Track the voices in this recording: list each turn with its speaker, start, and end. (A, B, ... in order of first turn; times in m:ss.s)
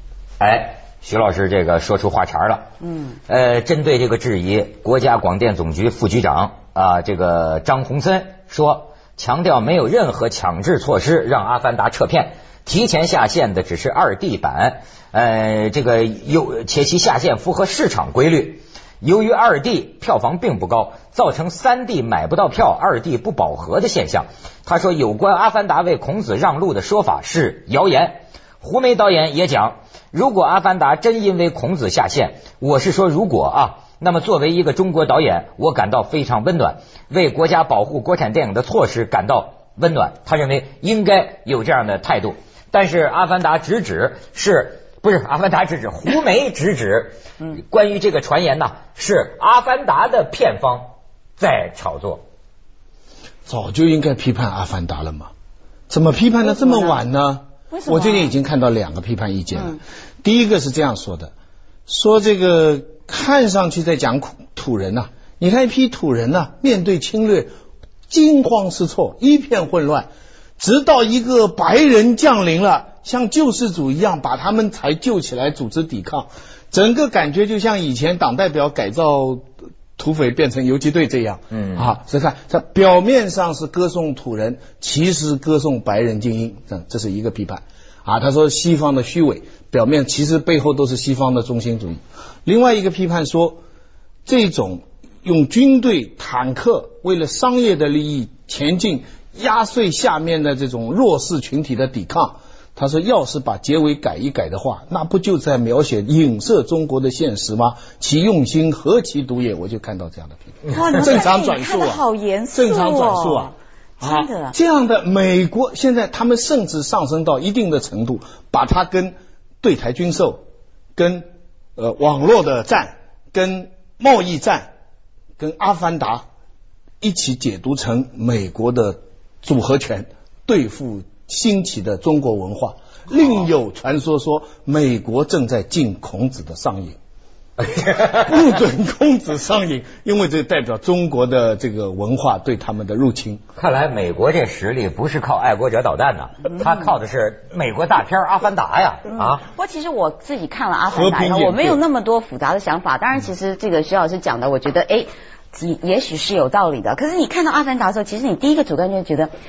0:00.4-0:02.6 A
0:03.3-0:52.2 A
0:53.4-0:55.3 B
0:55.9-1:01.3 B
0:56.4-0:57.0 C
0:57.7-0:58.3 C
1:01.9-1:07.5 B
1:08.1-1:10.1 B
1:10.6-1:33.6 B
1:21.5-1:21.9 A
1:34.2-2:00.4 B
1:50.6-1:54.6 C
2:01.0-2:04.7 B
2:05.4-2:06.2 B
2:07.0-2:17.0 B
2:17.6-2:18.4 A
2:18.0-2:23.4 B
2:23.6-2:29.4 A
2:29.1-2:39.3 C
2:30.9-2:31.8 B